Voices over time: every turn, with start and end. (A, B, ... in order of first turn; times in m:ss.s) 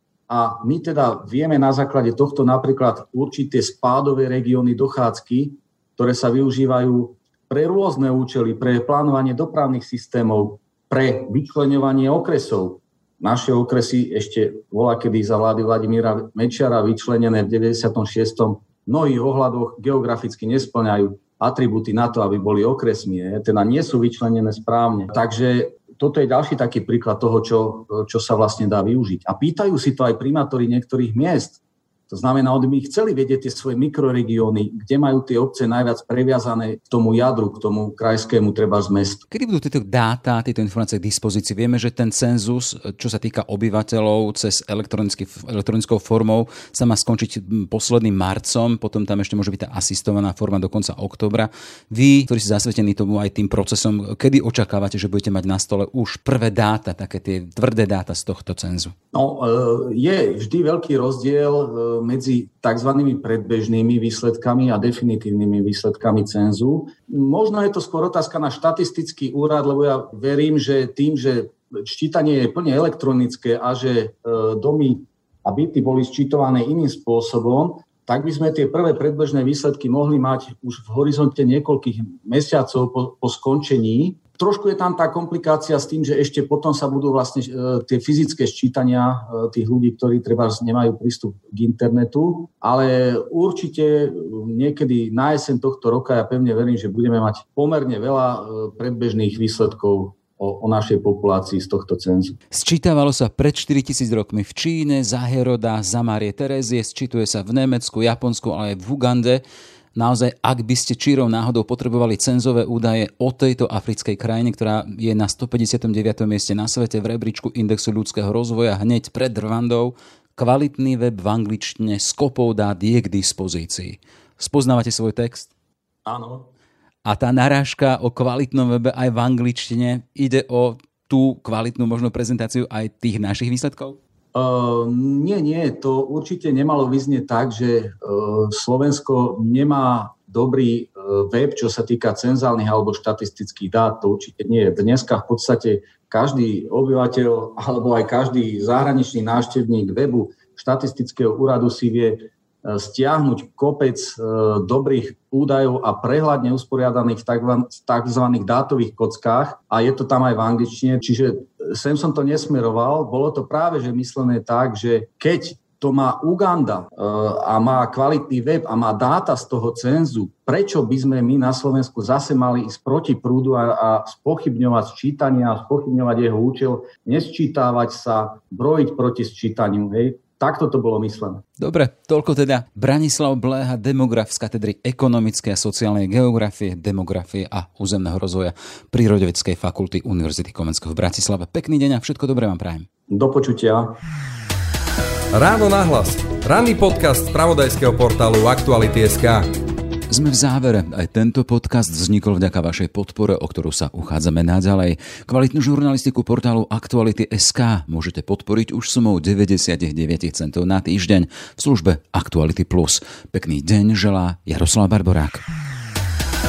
0:00.3-0:39.2 A
0:39.3-0:58.9 B
0:59.1-1:42.4 A
1:42.5-1:49.4 B
1:49.9-2:05.5 B
2:06.0-2:06.5 A
2:07.0-2:14.0 B
2:14.3-3:01.4 A
3:01.6-3:12.9 B
3:13.1-3:14.0 A
3:15.3-3:19.5 C
3:20.1-3:35.4 B